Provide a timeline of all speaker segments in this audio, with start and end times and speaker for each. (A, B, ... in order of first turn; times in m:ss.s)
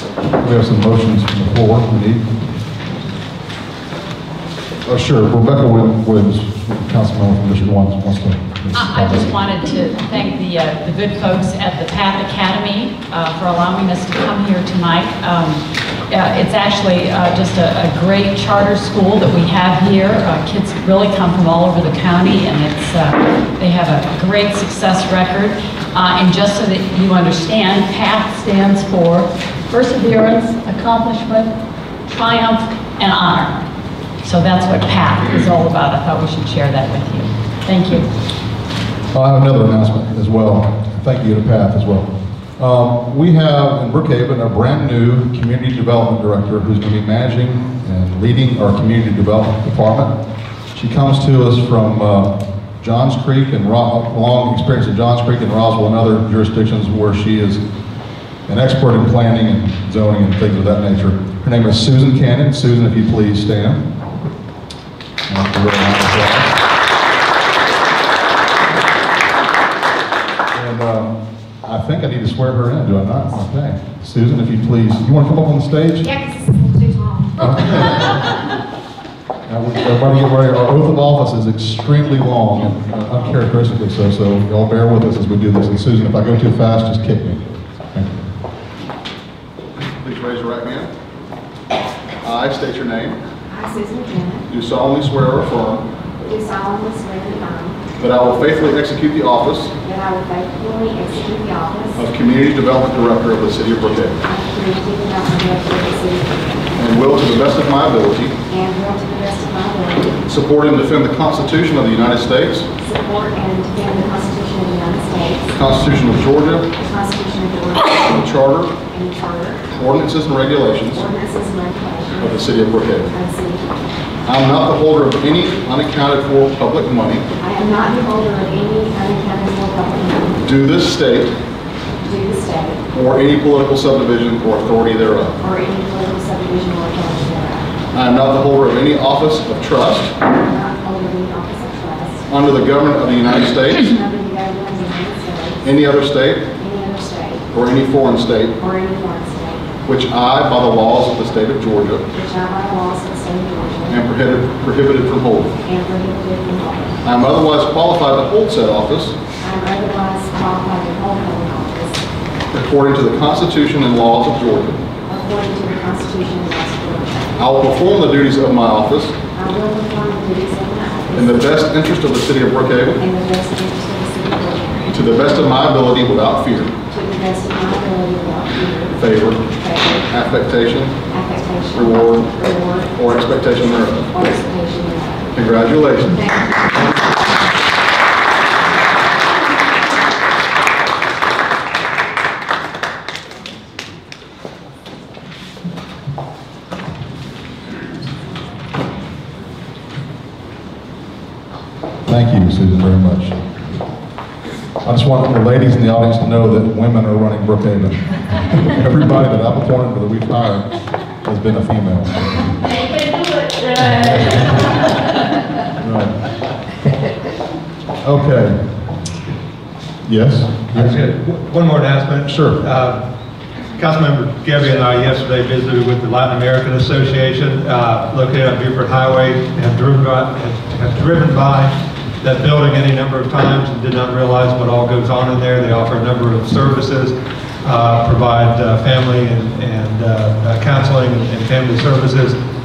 0:00.4-0:02.3 A
0:04.8-0:09.4 A
0:08.7-0:31.5 B
0:32.1-0:33.6 B
0:34.2-0:38.1 B
0:39.1-0:50.2 A
0:50.7-0:57.6 A
0:58.5-1:03.9 A
1:05.3-1:06.6 A
1:10.5-1:16.1 A
1:16.0-1:17.4 C
1:17.4-1:18.2 A
1:19.5-1:28.2 A
1:29.9-1:30.9 A
1:32.2-1:33.2 A
1:33.5-1:34.5 C
1:34.5-1:35.8 A
1:36.2-1:37.8 C
1:38.0-1:39.7 A
1:39.8-1:42.0 C
1:42.0-1:44.2 A
1:44.2-1:46.8 C
1:46.8-1:48.4 A
1:48.5-1:50.2 C
1:50.2-1:52.7 A
1:52.8-1:55.5 C
1:55.5-1:56.7 A
1:56.8-1:58.3 C
1:58.1-1:58.7 A
1:58.8-1:59.6 C
1:59.7-2:01.0 A
2:00.9-2:02.4 C
2:02.2-2:03.1 A
2:03.1-2:03.6 C
2:04.2-2:07.3 A
2:07.4-2:10.4 C
2:10.4-2:11.3 A
2:12.0-2:12.8 C
2:12.9-2:15.4 A
2:15.4-2:17.7 C
2:17.9-2:20.1 A
2:20.3-2:22.2 C
2:22.3-2:23.9 A
2:23.8-2:25.6 C
2:25.6-2:26.5 A
2:26.6-2:27.5 C
2:27.5-2:28.6 A
2:28.6-2:29.7 C
2:29.8-2:32.1 A
2:32.1-2:34.0 C
2:33.9-2:35.6 A
2:35.6-2:37.0 C
2:37.0-2:39.2 A
2:39.4-2:42.0 C
2:42.5-2:44.8 A
2:45.1-2:47.4 C
2:47.4-2:49.2 A
2:49.3-2:51.5 C
2:51.1-2:53.0 A
2:53.0-2:55.1 C
2:54.9-2:56.7 A
2:56.9-3:00.1 C
2:58.9-2:59.5 A
3:00.1-3:01.0 A
3:01.1-3:05.3 C
3:01.7-3:02.3 A
3:02.9-3:04.1 A
3:05.3-3:06.2 A
3:06.2-3:06.6 C
3:22.1-3:23.4 A
3:24.8-3:32.5 A
3:34.1-3:34.4 A
3:35.8-3:36.1 A
3:38.0-3:38.6 A
3:40.0-3:41.0 A
3:40.7-3:43.0 D
3:42.2-3:42.6 A
3:43.8-4:02.4 D